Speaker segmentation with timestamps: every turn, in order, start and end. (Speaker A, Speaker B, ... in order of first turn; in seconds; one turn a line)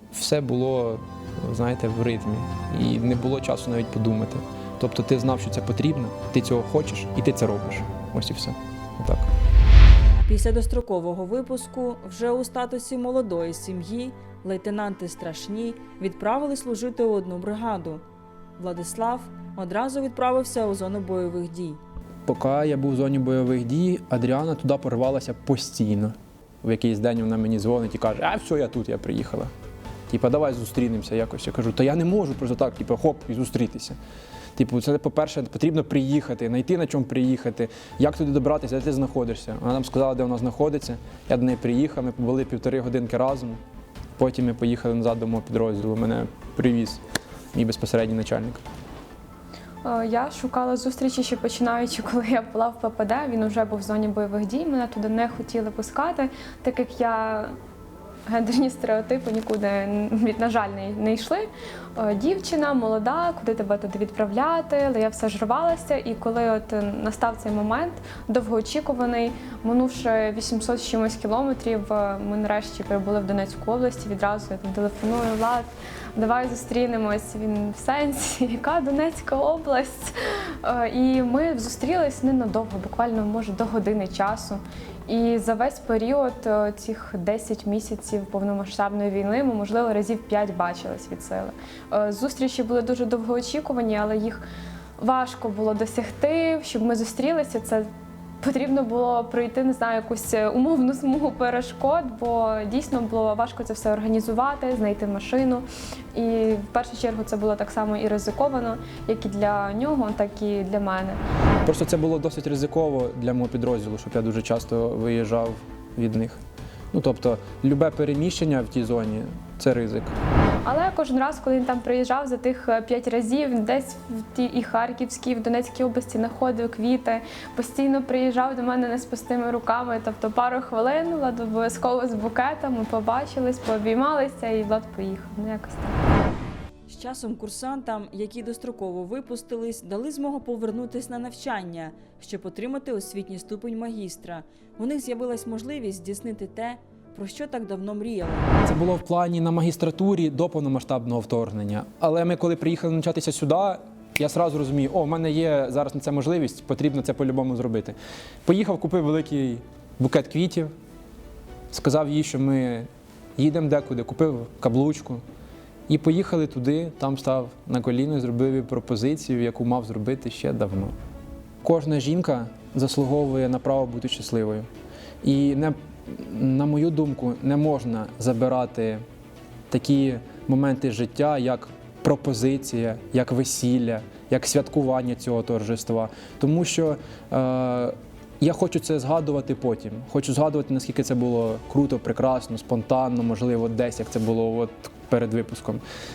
Speaker A: 0.1-9.3
Speaker B: 10.3-18.0
Speaker B: 18.6-21.8
Speaker A: 22.3-29.5
Speaker A: 30.1-34.0
Speaker A: 34.6-43.6
Speaker A: 44.2-47.0
Speaker A: 47.5-48.6
Speaker C: 49.8-57.5
Speaker C: 58.3-94.4
Speaker C: 95.0-97.9
Speaker C: 98.4-111.2
Speaker A: 111.7-116.4
Speaker A: 116.9-120.2
Speaker C: 120.7-136.0
Speaker B: 136.9-148.5
Speaker A: 148.6-160.7
Speaker A: 161.7-165.2
Speaker A: 165.9-171.0
Speaker A: 171.6-174.7
Speaker A: 175.2-179.0
Speaker A: 179.7-195.8